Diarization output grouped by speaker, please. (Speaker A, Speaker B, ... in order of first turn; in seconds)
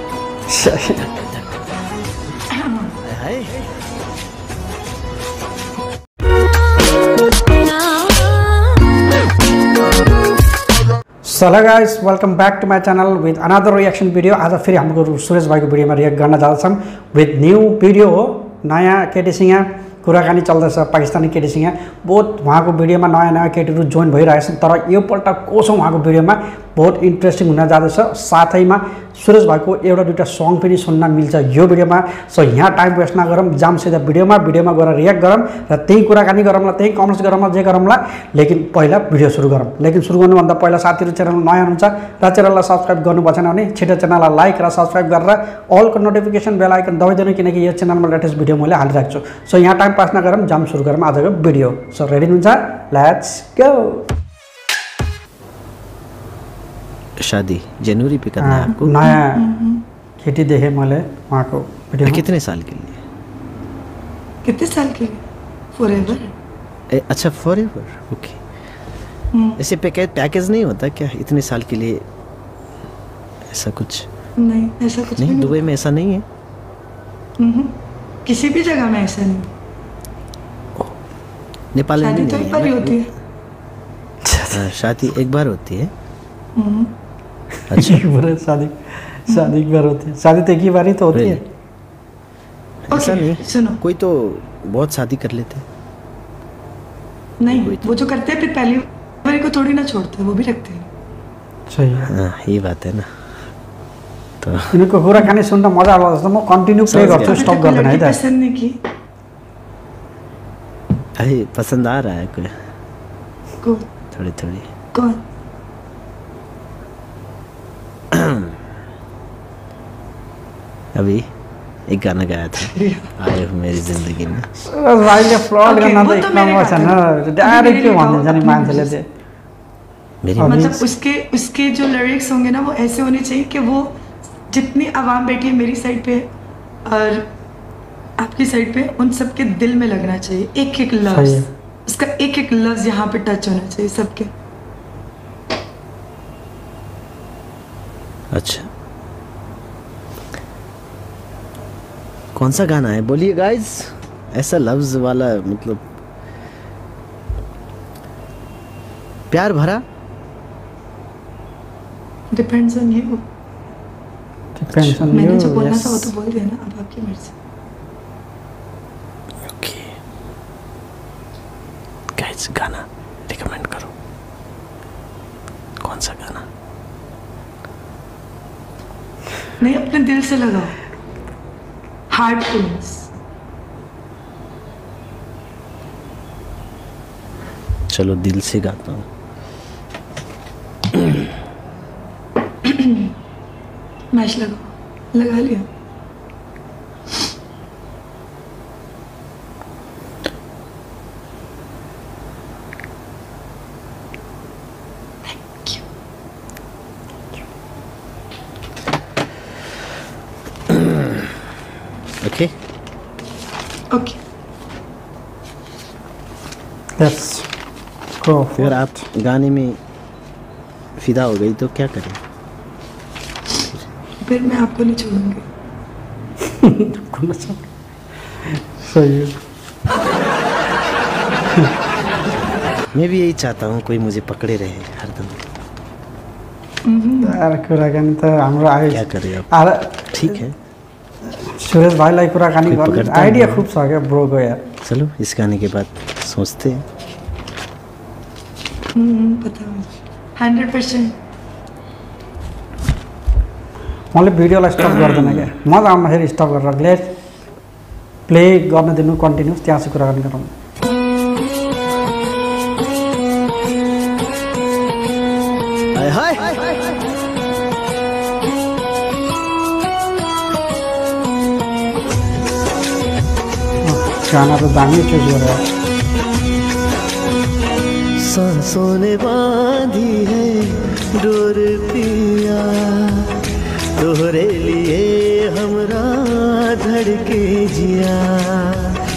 Speaker A: 0.5-1.0, 11.3-54.1, 58.4-59.5, 60.2-62.2, 84.2-84.6, 87.7-91.4, 101.7-102.1, 104.7-108.2, 124.6-129.1, 130.4-130.8, 141.1-141.5, 164.6-166.1, 217.0-217.5, 218.2-219.1, 226.6-227.6, 228.5-229.3, 237.2-240.4, 241.4-244.6, 254.1-257.1, 258.3-260.5, 273.8-275.6
Speaker B: 1.0-1.4, 3.0-3.7, 57.2-59.0, 62.0-63.0, 66.9-68.4, 69.6-72.0, 73.5-74.1, 75.2-76.2, 81.7-83.0, 84.5-85.9, 87.7-88.0, 91.1-91.4, 92.9-95.6, 97.5-98.1, 102.0-103.1, 104.4-104.8, 106.9-107.5, 111.2-112.5, 114.1-114.7, 118.1-118.5, 121.0-121.3, 121.9-124.5, 130.2-130.8, 148.3-148.7, 152.3-155.8, 159.3-159.8, 164.7-165.2, 169.5-169.9, 172.2-173.9, 175.8-176.4, 187.9-189.1, 210.7-211.2, 212.2-212.5, 218.6-219.8, 221.0-222.2, 232.9-235.4, 238.9-239.5, 240.1-240.6, 242.7-243.7, 244.8-246.8, 254.9-255.4, 266.0-266.8, 278.2-283.4, 284.0-289.0
Speaker C: 2.5-2.9, 58.7-59.8, 64.4-65.2, 65.8-66.3, 69.3-69.6, 74.4-75.6, 77.4-79.5, 82.0-83.1, 86.6-86.9, 89.3-89.5, 92.9-93.8, 97.4-100.9, 107.0-108.8, 114.9-115.2, 122.7-123.1, 125.6-128.9, 130.5-133.9, 134.5-136.3, 136.9-137.3, 138.2-144.3, 162.3-163.2, 165.1-167.3, 179.6-180.7, 182.1-183.1, 192.6-193.1, 194.1-195.7, 205.3-205.8, 213.9-214.2, 224.2-225.4, 236.8-237.4, 249.0-251.2